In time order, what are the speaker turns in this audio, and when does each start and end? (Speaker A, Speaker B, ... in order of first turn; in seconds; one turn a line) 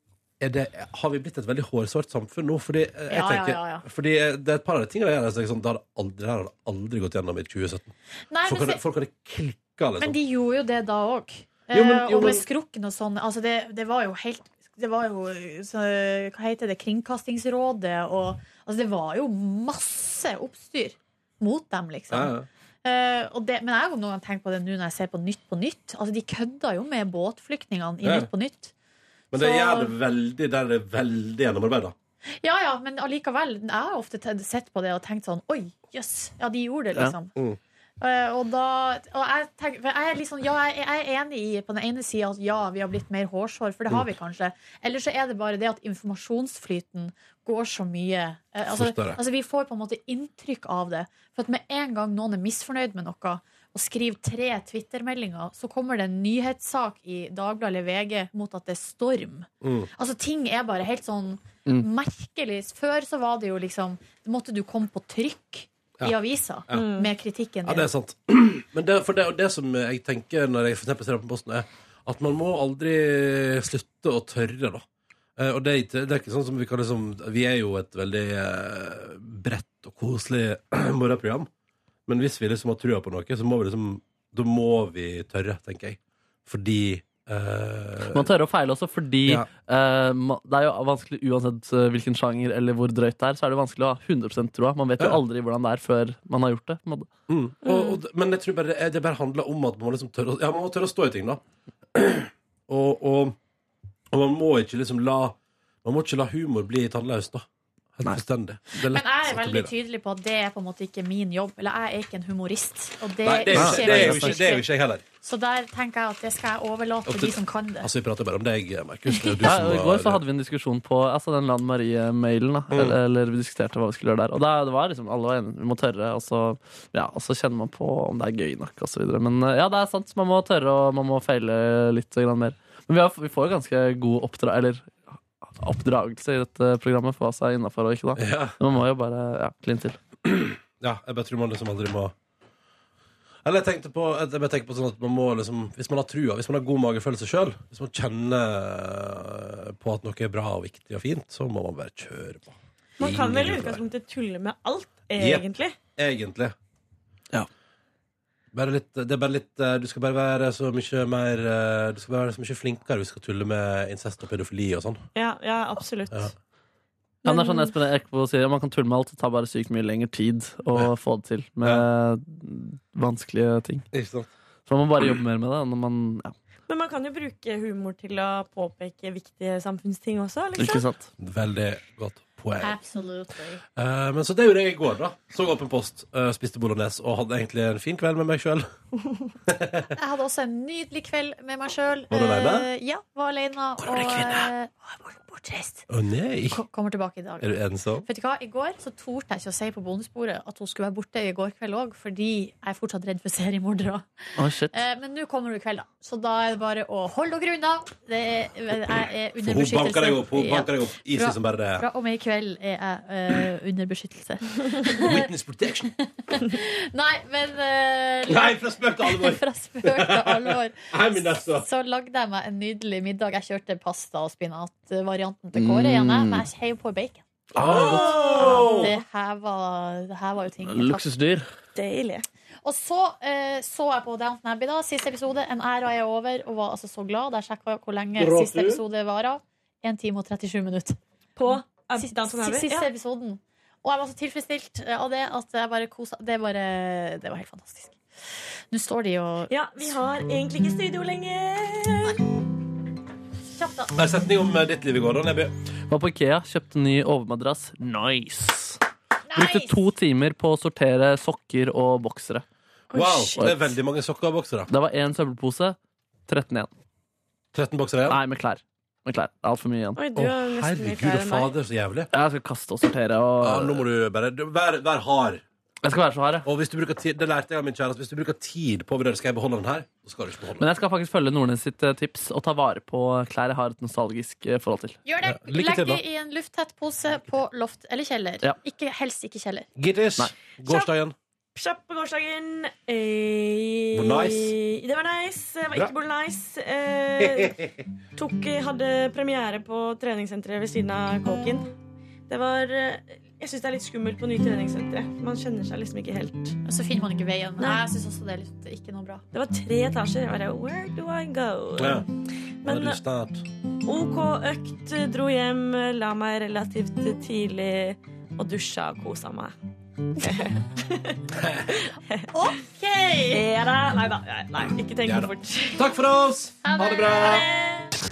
Speaker A: 0.4-7.9
Speaker B: 3.1-3.8
Speaker B: 8.3-8.8
Speaker A: 8.4-10.2
Speaker B: 10.0-28.7
Speaker A: 11.7-12.4
Speaker A: 22.1-22.5
Speaker A: 28.0-28.3
Speaker A: 29.3-31.9
Speaker B: 29.3-29.9
Speaker B: 32.4-37.3
Speaker B: 38.0-67.9
Speaker A: 48.7-49.2
Speaker A: 59.6-59.9
Speaker C: 66.7-67.1
Speaker A: 67.6-74.8
Speaker A: 75.4-81.5
Speaker A: 82.1-88.3
Speaker D: 88.1-97.1
Speaker A: 97.3-101.4
Speaker C: 97.6-98.0
Speaker A: 101.9-103.3
Speaker A: 104.1-109.7
Speaker B: 108.9-114.7
Speaker A: 113.2-115.0
Speaker D: 113.5-114.4
Speaker B: 115.2-117.9
Speaker A: 117.1-120.2
Speaker D: 119.4-134.9
Speaker A: 122.7-123.0
Speaker D: 135.6-140.0
Speaker A: 138.2-138.6
Speaker A: 140.2-142.1
Speaker A: 143.4-153.8
Speaker C: 153.0-155.8
Speaker A: 155.2-155.4
Speaker A: 156.0-156.5
Speaker A: 158.5-165.0
Speaker C: 165.1-166.3
Speaker B: 167.2-167.7
Speaker D: 167.2-173.8
Speaker A: 173.9-174.3
Speaker D: 174.7-176.3
Speaker C: 176.7-180.8
Speaker D: 180.6-181.1
Speaker A: 181.2-182.8
Speaker B: 182.6-183.6
Speaker A: 183.8-188.7
Speaker A: 189.5-189.8
Speaker B: 190.0-195.9
Speaker A: 192.1-192.7
Speaker A: 194.2-194.4
Speaker A: 195.9-196.6
Speaker B: 196.5-204.1
Speaker A: 197.4-198.1
Speaker D: 204.4-204.8
Speaker B: 204.7-215.2
Speaker A: 209.4-211.8
Speaker A: 215.0-215.9
Speaker B: 216.3-220.9
Speaker A: 218.3-221.7
Speaker B: 221.4-227.2
Speaker D: 225.5-226.4
Speaker A: 227.5-228.9
Speaker D: 227.6-228.4
Speaker B: 227.7-231.0
Speaker C: 228.4-228.9
Speaker D: 230.7-231.4
Speaker C: 231.7-232.2
Speaker B: 232.6-241.0
Speaker A: 238.2-238.8
Speaker C: 241.4-242.9
Speaker B: 242.0-247.9
Speaker B: 248.7-249.9
Speaker C: 249.5-252.2
Speaker B: 253.5-253.9
Speaker A: 253.9-255.5
Speaker D: 255.9-258.8
Speaker B: 259.3-259.8
Speaker D: 259.3-262.4
Speaker C: 262.9-263.5
Speaker A: 262.9-264.7
Speaker D: 264.7-266.7
Speaker A: 267.5-268.2
Speaker D: 268.1-270.0
Speaker C: 269.9-271.5
Speaker A: 270.1-272.1
Speaker D: 272.1-273.8
Speaker A: 273.4-275.4
Speaker D: 275.8-276.5
Speaker A: 276.4-280.6
Speaker D: 280.6-285.0
Speaker B: 285.1-289.7
Speaker A: 285.2-286.0
Speaker A: 289.8-291.1
Speaker C: 291.6-297.6
Speaker A: 293.9-294.5
Speaker A: 297.2-297.7
Speaker C: 298.1-301.7
Speaker C: 302.3-306.6
Speaker B: 306.6-309.2
Speaker C: 307.6-307.8
Speaker C: 309.3-312.1
Speaker A: 311.8-312.0
Speaker C: 312.6-313.0
Speaker A: 312.6-313.4
Speaker C: 313.8-319.5
Speaker C: 320.2-321.2
Speaker A: 321.4-321.8
Speaker B: 322.3-323.4
Speaker C: 323.3-325.8
Speaker A: 325.0-327.5
Speaker B: 326.6-327.4
Speaker C: 327.2-327.9